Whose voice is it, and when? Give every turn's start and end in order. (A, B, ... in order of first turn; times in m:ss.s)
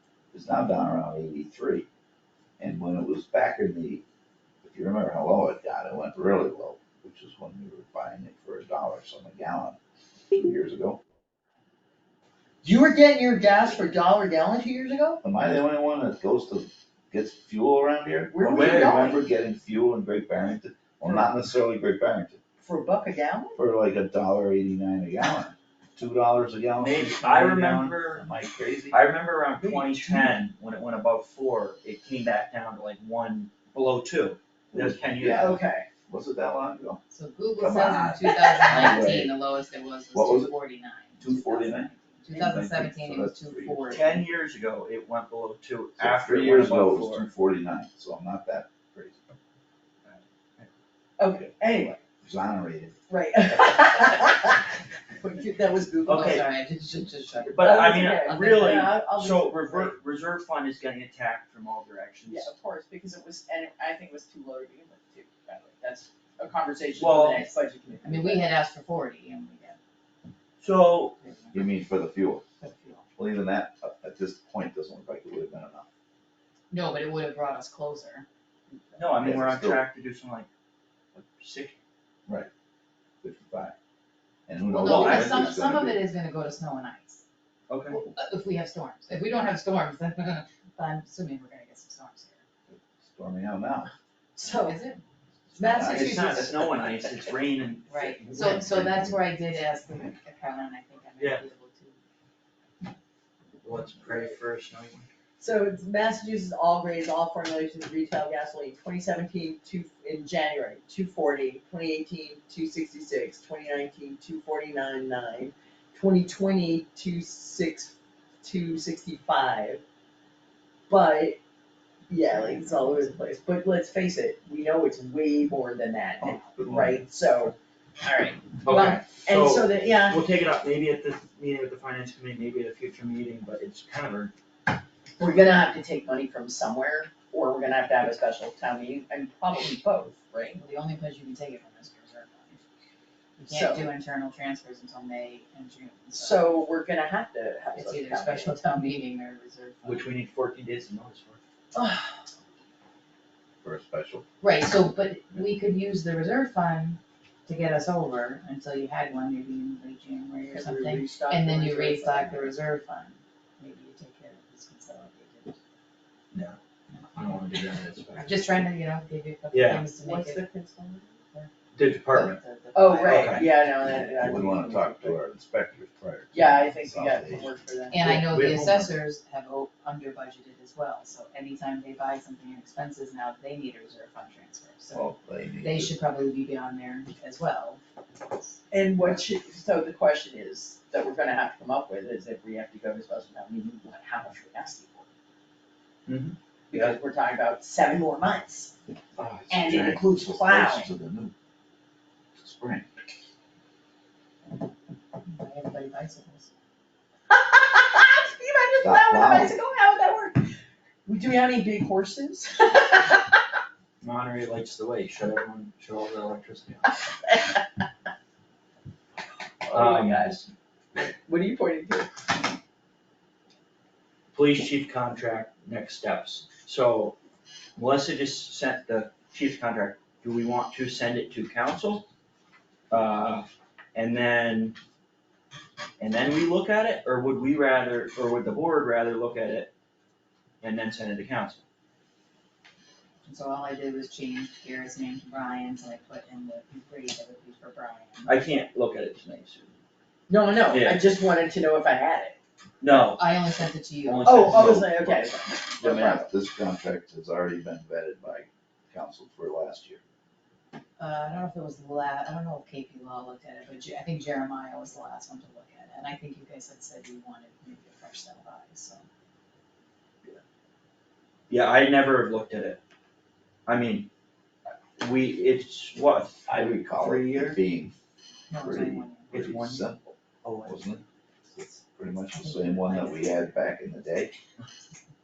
0:00.3-0:01.9 A
0:02.6-0:04.0 A
0:04.6-0:09.8 A
0:10.3-0:11.0 A
0:12.6-0:15.2 B
0:15.2-0:22.4 A
0:18.3-0:19.2 B
0:18.4-0:19.2 C
0:22.6-0:23.6 B
0:23.6-0:29.0 A
0:26.8-0:28.2 C
0:28.9-0:35.6 C
0:29.6-0:30.4 B
0:34.7-0:37.0 A
0:35.4-0:35.9 B
0:37.1-0:44.2 D
0:37.6-0:39.3 A
0:40.1-0:40.5 A
0:41.2-0:41.9 A
0:42.3-0:42.8 C
0:42.5-0:44.2 A
0:43.9-0:47.3 C
0:46.0-0:49.2 A
0:50.1-0:50.7 C
0:51.2-0:52.0 B
0:52.2-0:53.0 A
0:53.1-0:56.4 B
0:56.1-0:56.5 C
0:56.1-0:58.9 D
0:57.5-1:02.5 C
0:57.6-1:00.0 B
1:02.3-1:08.6 B
1:07.0-1:07.5 C
1:08.0-1:09.8 D
1:10.6-1:11.2 C
1:11.2-1:11.6 D
1:11.5-1:12.4 A
1:12.6-1:13.1 D
1:13.2-1:15.9 A
1:16.7-1:18.3 D
1:19.0-1:20.5 C
1:19.2-1:19.8 A
1:21.1-1:21.8 C
1:23.2-1:23.8 A
1:24.5-1:26.1 A
1:24.7-1:27.2 D
1:24.9-1:25.5 C
1:27.7-1:28.0 C
1:27.9-1:32.4 D
1:32.7-1:33.9 A
1:34.4-1:34.8 B
1:34.5-1:35.0 D
1:35.4-1:36.5 A
1:35.6-1:36.5 B
1:35.9-1:39.1 C
1:37.9-1:42.0 D
1:43.6-1:45.1 C
1:45.4-1:59.8 B
2:00.9-2:01.4 B
2:02.1-2:10.2 B
2:06.4-2:06.9 A
2:06.7-2:07.0 C
2:08.6-2:14.3 C
2:15.2-2:20.6 B
2:20.6-2:22.6 D
2:23.4-2:26.6 D
2:23.5-2:23.9 B
2:26.1-2:28.6 B
2:27.8-2:30.1 D
2:29.8-2:31.4 C
2:31.7-2:32.2 B
2:33.6-2:34.2 A
2:34.4-2:45.6 D
2:40.5-2:42.6 B
2:46.3-2:46.6 C
2:47.1-2:48.6 C
2:48.2-2:50.5 D
2:49.5-2:49.8 C
2:50.0-2:51.2 B
2:51.7-2:52.4 C
2:52.1-2:53.4 D
2:52.7-2:55.2 B
2:53.0-2:53.5 C
2:54.1-2:57.5 A
2:56.3-2:58.3 B
2:57.9-3:05.1 D
2:58.2-2:59.0 C
3:04.9-3:06.0 A
3:05.6-3:07.8 D
3:08.7-3:15.1 B
3:16.1-3:17.0 C
3:16.7-3:18.7 B
3:19.2-3:20.0 C
3:19.5-3:20.9 B
3:19.6-3:21.3 A
3:22.4-3:22.8 A
3:25.2-3:26.5 D
3:27.3-3:30.5 B
3:28.8-3:29.6 A
3:31.1-3:33.4 B
3:34.0-3:37.0 C
3:39.6-3:42.2 B
3:39.7-3:40.4 C
3:44.3-3:47.2 C
3:47.8-3:52.0 C
3:52.9-3:54.8 C
3:56.0-3:59.7 C
4:00.6-4:01.6 C
4:03.3-4:08.4 D
4:08.3-4:09.8 C
4:10.3-4:12.4 B
4:10.7-4:11.0 C
4:12.8-4:13.3 C
4:13.0-4:14.8 D
4:14.0-4:15.2 C
4:14.2-4:16.3 B
4:15.8-4:20.0 A
4:21.0-4:29.0 D
4:31.5-4:32.8 C
4:33.7-4:34.1 C
4:35.0-4:37.6 C
4:36.5-4:37.9 A
4:38.5-4:39.3 D
4:38.6-4:44.3 A
4:39.3-4:41.0 C
4:42.3-4:43.4 D